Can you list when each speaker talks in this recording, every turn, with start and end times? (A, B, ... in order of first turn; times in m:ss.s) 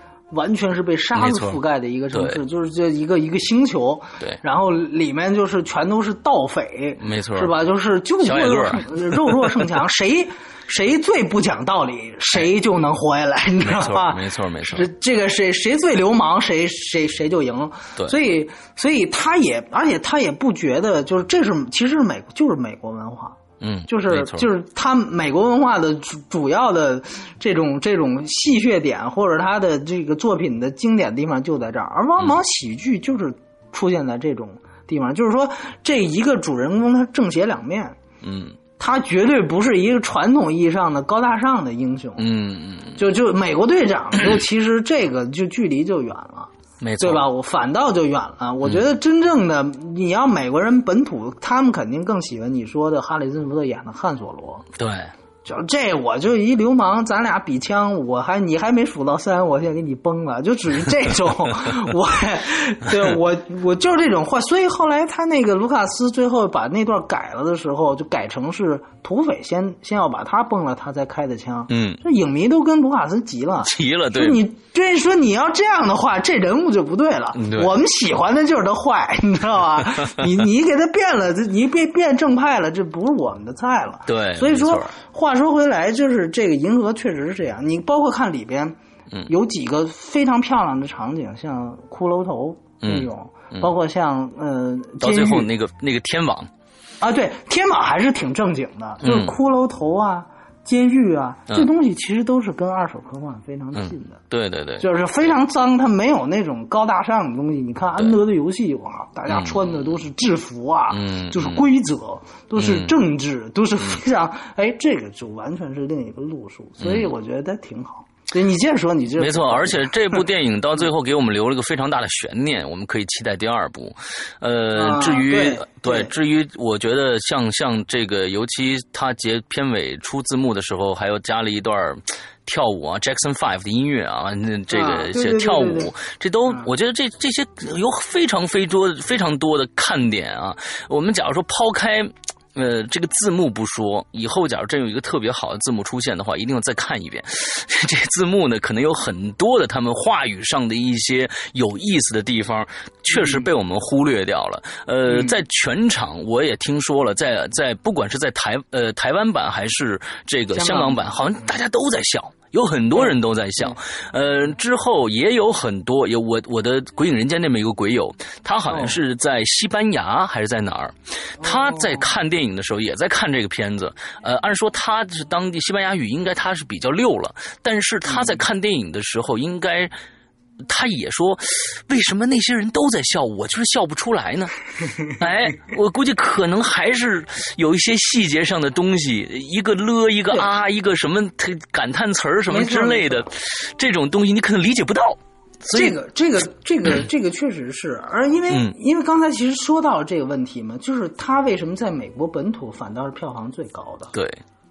0:00.3-0:38.0 A
0:01.2-0:01.6 B
0:02.1-0:02.4 B
0:07.0-0:07.5 B
0:08.2-0:09.5 B
0:13.6-0:14.9 B
0:23.6-0:24.5 B
0:38.2-0:38.6 B
0:38.8-0:42.3 A
0:42.2-0:43.0 B
0:43.0-0:54.7 A
0:46.8-0:47.3 B
0:54.8-0:55.1 B
0:55.4-1:35.5 A
1:11.7-1:12.0 B
1:13.6-1:14.4 B
1:17.4-1:17.7 B
1:24.1-1:24.9 B
1:32.8-1:33.7 B
1:35.0-1:36.5 B
1:37.0-1:44.2 A
1:39.0-1:39.4 B
1:43.8-1:44.9 B
1:44.8-1:59.9 A
1:49.3-1:50.0 B
1:50.9-1:51.6 B
1:52.6-1:52.9 B
1:56.8-1:57.1 B
1:59.2-2:59.9 B
2:04.7-2:06.1 A
2:14.7-2:15.9 A
2:33.1-2:33.5 A
2:35.1-2:35.4 A
2:40.5-2:41.5 A
2:48.7-2:49.0 A
2:51.4-2:52.0 A
2:58.1-2:58.4 A
3:00.6-3:04.5 B
3:05.1-3:16.0 B
3:12.5-3:13.3 A
3:15.7-3:24.1 A
3:24.1-3:24.4 B